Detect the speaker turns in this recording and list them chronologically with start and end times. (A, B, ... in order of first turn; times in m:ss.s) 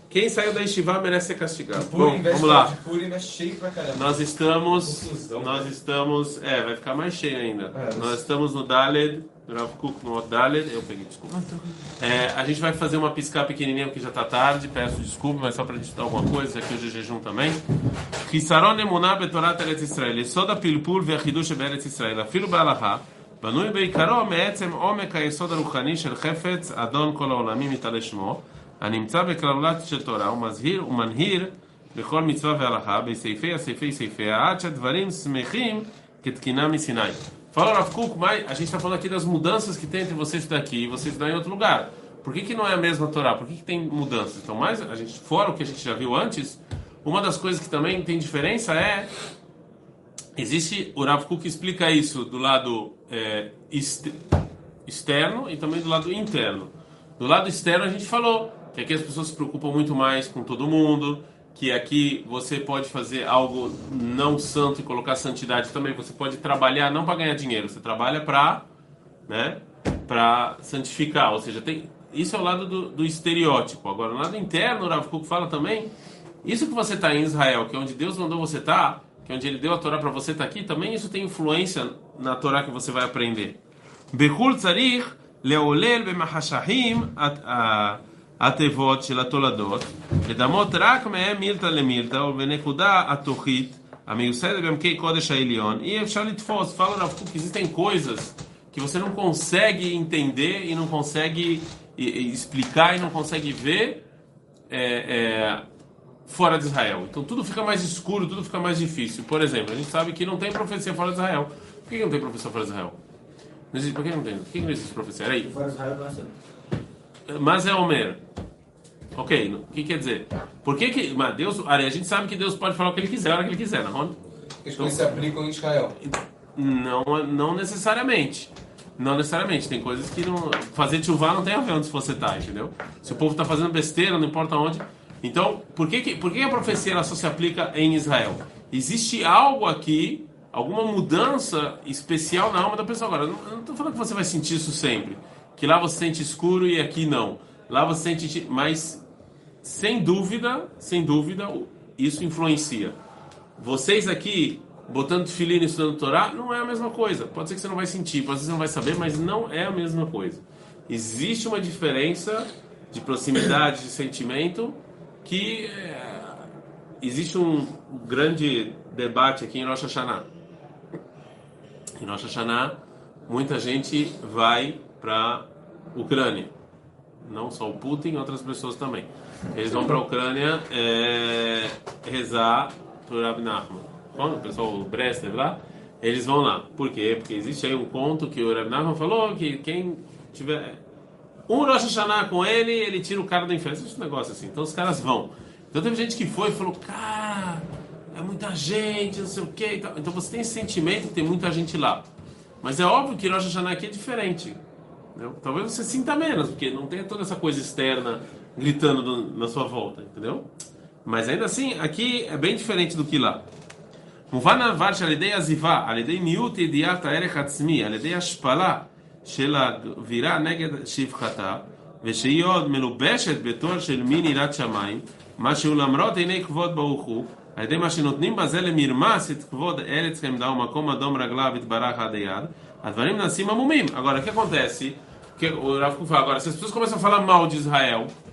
0:00.1-0:02.8 A
0:01.8-0:05.7 B
0:03.9-0:17.6 A
0:07.7-0:08.2 B
0:18.2-0:49.1 A
0:50.4-0:54.2 A
0:54.9-1:08.6 A
1:09.3-1:15.9 A
1:16.4-1:23.6 A
1:24.1-1:44.0 A
1:44.7-1:45.6 A
1:46.3-1:53.0 A
1:53.7-1:55.8 A
1:55.7-1:56.3 B
1:57.3-1:58.2 A
1:59.2-2:04.2 A
2:04.6-2:06.0 B
2:04.8-2:05.3 A
2:06.0-2:29.0 A
2:29.6-2:33.0 A
2:33.6-2:46.5 A
2:47.0-2:50.3 A
2:52.0-2:56.5 A
2:57.2-3:10.8 A
3:11.5-3:22.1 A
3:22.6-3:24.6 A
3:25.2-3:30.5 A
3:31.0-3:33.4 A
3:34.3-3:58.1 A